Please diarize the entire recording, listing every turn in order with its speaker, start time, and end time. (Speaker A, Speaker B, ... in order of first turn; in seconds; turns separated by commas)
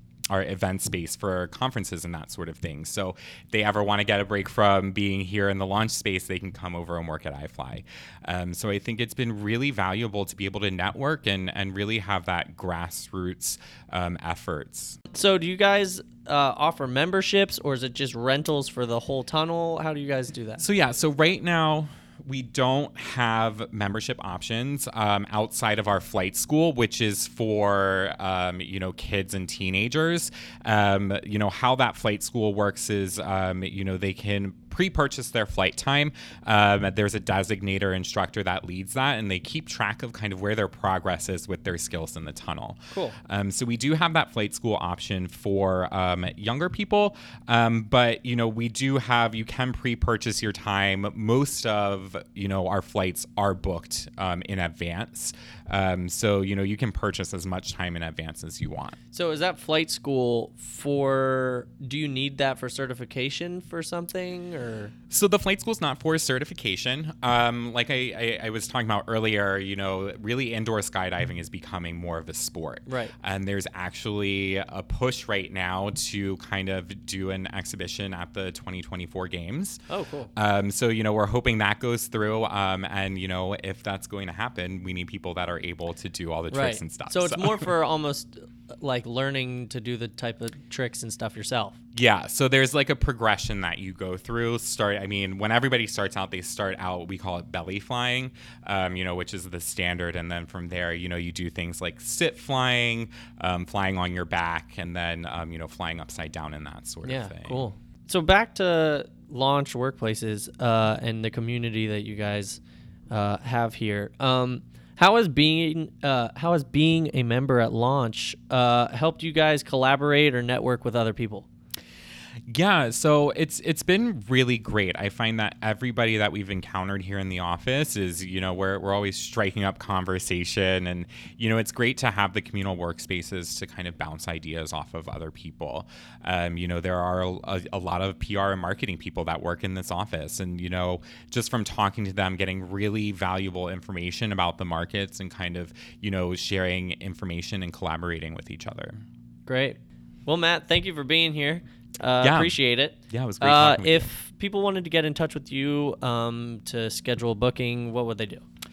Speaker A: 0.3-15.0, Speaker B: 15.1-20.6, Speaker A: 20.6-59.0, Speaker B: 42.9-43.2, Speaker B: 59.1-64.9, Speaker A: 65.1-79.8, Speaker B: 72.9-73.1, Speaker B: 79.9-80.3, Speaker A: 80.4-87.7, Speaker B: 86.5-91.8, Speaker A: 91.9-107.7, Speaker B: 107.0-121.5, Speaker A: 122.5-149.0, Speaker B: 149.5-158.4, Speaker A: 152.2-152.6, Speaker A: 153.1-154.1